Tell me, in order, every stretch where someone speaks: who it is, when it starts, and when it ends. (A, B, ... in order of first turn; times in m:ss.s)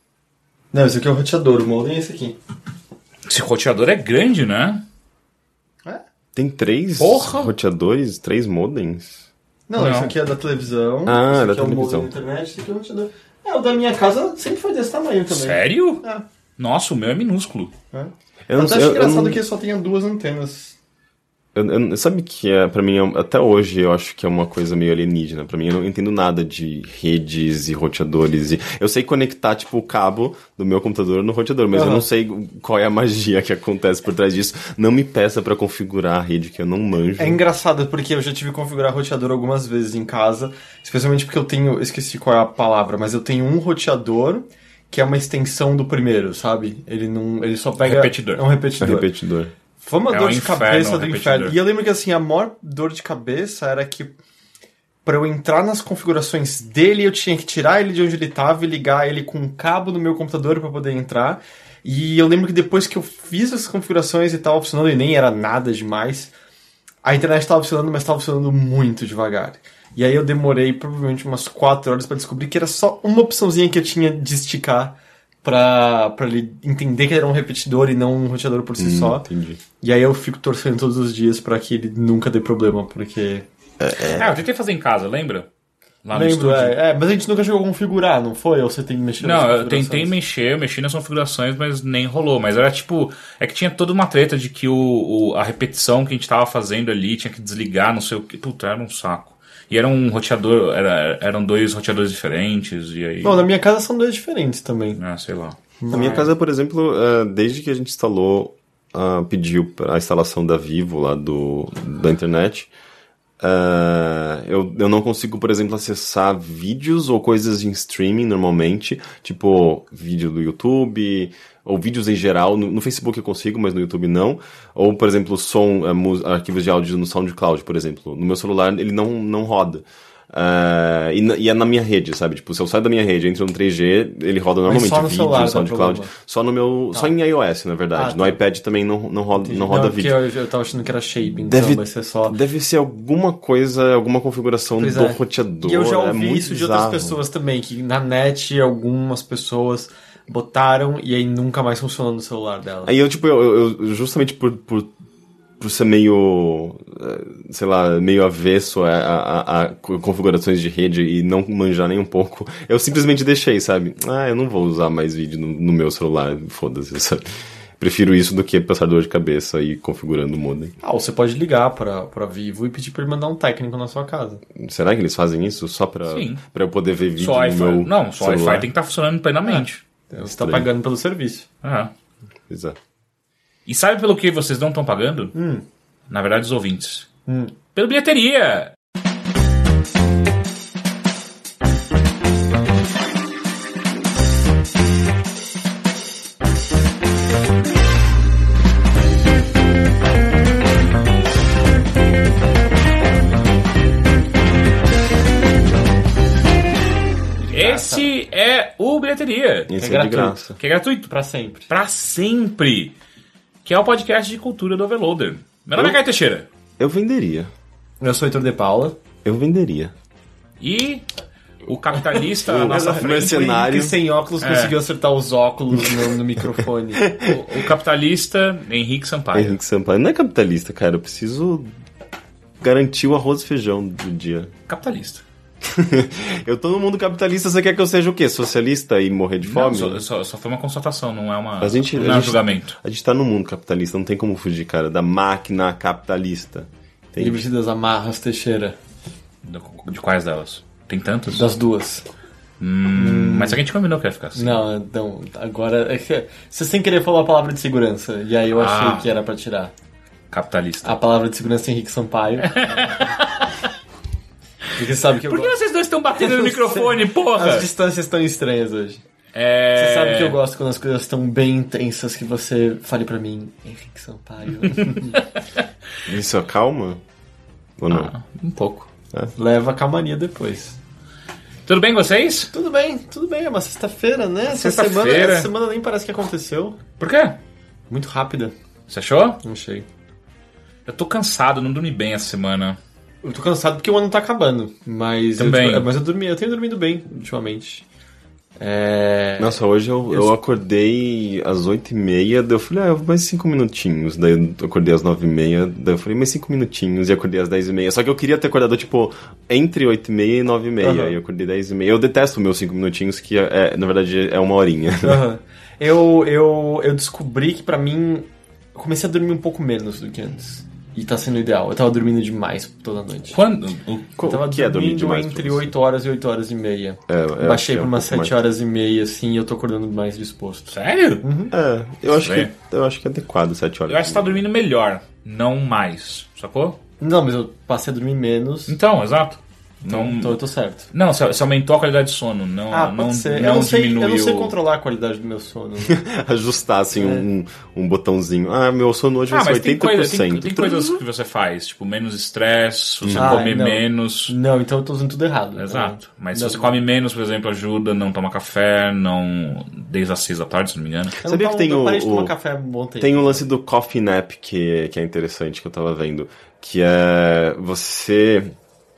0:00.7-0:02.4 A
0:03.3-0:04.8 B
0:06.4-0:09.3 C
0:07.0-0:07.5 B
0:09.7-0:16.2 A
0:09.8-0:10.1 B
0:11.1-0:12.1 C
0:15.3-0:16.0 B
0:16.6-0:17.7 B
0:17.9-0:20.8 A
0:18.5-0:19.4 C
0:21.6-0:37.4 C
0:31.7-0:32.1 A
0:37.2-0:49.1 A
0:47.8-0:48.4 B
0:48.8-0:49.5 C
0:49.8-0:54.2 A
0:50.1-0:51.6 B
0:55.0-1:06.3 A
1:07.0-1:19.2 A
1:18.8-1:19.6 C
1:19.8-1:23.5 A
1:23.8-1:24.4 C
1:24.1-1:25.5 B
1:26.0-1:26.8 B
1:26.1-1:30.1 A
1:29.2-1:43.4 B
1:43.2-1:45.0 A
1:45.0-1:45.6 B
1:45.8-1:46.3 A
1:45.9-1:52.7 C
1:53.4-2:20.2 C
2:14.7-2:16.1 A
2:18.0-2:18.4 A
2:19.4-2:22.4 A
2:21.4-2:27.2 C
2:24.8-2:32.9 A
2:32.8-2:34.9 C
2:35.6-2:47.2 C
2:47.8-2:50.8 C
2:50.8-2:54.4 A
2:54.6-2:58.7 C
2:56.1-2:56.4 B
2:57.2-2:59.8 B
2:59.5-3:01.5 A
3:00.3-3:00.7 C
3:01.6-3:01.9 B
3:02.5-3:02.8 C
3:03.7-3:05.4 B
3:05.4-3:05.6 A
3:06.1-3:07.1 B
3:07.3-3:07.5 A
3:07.8-3:08.7 B
3:27.4-3:28.1 A
3:27.5-3:29.7 B
3:29.7-3:30.6 C
3:29.8-3:30.5 A
3:30.6-3:31.1 B
3:31.1-3:31.7 A
3:31.7-3:33.0 B
3:33.6-3:36.5 B
3:36.8-3:37.5 C
3:38.0-3:39.0 A
3:39.2-3:39.9 C
3:40.6-3:41.1 B
3:41.7-3:43.7 B
3:42.4-3:44.0 C
3:42.7-3:47.0 A
3:44.4-3:44.8 B
3:45.8-3:46.1 C
3:47.0-3:47.6 C
3:47.2-3:49.6 B
3:49.3-3:51.7 C
3:52.6-3:54.5 C
3:54.7-3:55.2 B
3:55.6-4:00.0 C
3:59.4-4:02.8 B
4:01.6-4:07.4 C
4:07.2-4:08.8 A
4:09.4-4:11.4 B
4:11.3-4:12.0 A
4:12.6-4:14.6 B
4:12.9-4:13.6 A
4:14.4-4:19.7 A
4:18.6-4:19.1 B
4:20.3-4:21.0 B
4:20.8-4:22.9 A
4:22.4-4:23.7 B
4:24.8-4:25.6 A
4:25.3-4:27.7 B
4:26.2-4:29.0 A
4:29.4-4:30.4 B
4:29.8-4:35.2 A
4:34.6-4:35.2 B
4:36.1-4:37.0 C
4:37.8-4:38.1 C
4:37.9-4:38.9 B
4:39.4-4:40.8 A
4:41.7-4:42.5 B
4:42.5-4:46.8 A
4:44.5-4:45.5 B
4:47.0-4:47.4 B
4:47.9-4:48.5 A
4:48.9-4:49.4 B
4:49.4-4:49.8 A
4:50.9-4:52.8 B
4:53.2-4:57.8 A
4:55.4-4:55.9 B
4:58.6-5:00.3 A
4:59.4-5:15.2 C
5:10.8-5:11.2 A
5:15.0-5:23.4 A
5:23.3-5:24.1 B
5:24.2-5:25.7 C
5:24.2-5:31.5 A
5:27.1-5:28.4 C
5:30.7-5:31.2 B
5:31.5-5:34.4 C
5:32.1-5:32.5 B
5:33.9-5:36.8 B
5:37.0-5:38.8 A
5:38.7-5:40.4 B
5:39.9-5:40.9 A
5:40.9-5:44.5 B
5:42.7-5:46.0 A
5:45.8-5:51.0 C
5:47.0-5:47.3 A
5:49.3-5:54.4 B
5:53.0-5:53.4 C
5:53.2-5:56.8 A
5:55.6-6:01.2 B
6:01.2-6:02.3 C
6:01.2-6:03.4 A
6:03.0-6:08.5 C